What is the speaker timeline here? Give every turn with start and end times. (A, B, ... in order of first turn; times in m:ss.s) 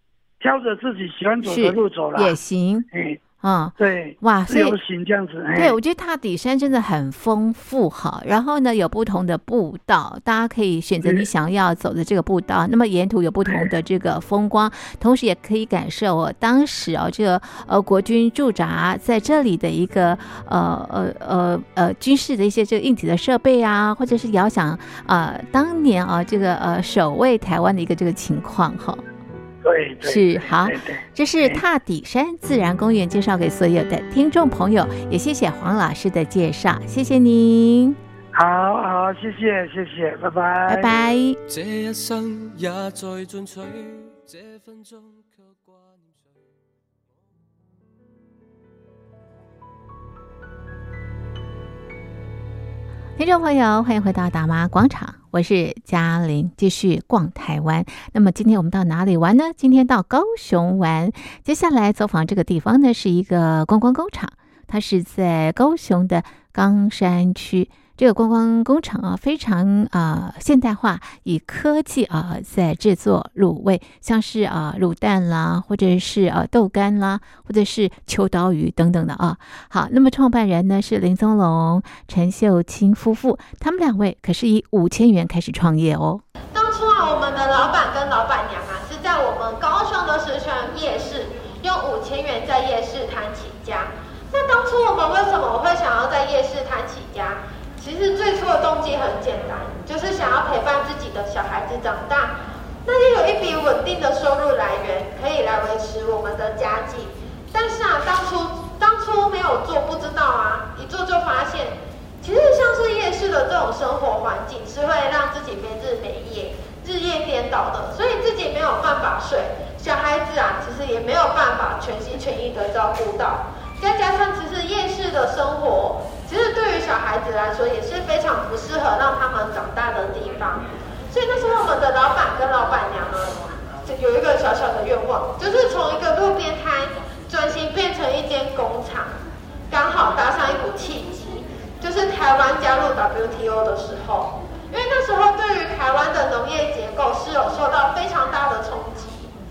0:00.4-0:02.4 A
0:01.4-0:02.9 B
0:02.9-0:03.2 A
0:03.4-0:04.8 B
0:03.8-0:05.8 A
0:05.6-0:29.0 B
0:29.6-0:31.6 A
0:30.0-0:38.0 B
0:38.3-0:40.9 A
0:40.7-0:41.4 B
0:41.5-0:46.4 C
0:53.2-1:26.2 B
1:26.5-2:19.1 D
2:19.7-2:29.3 D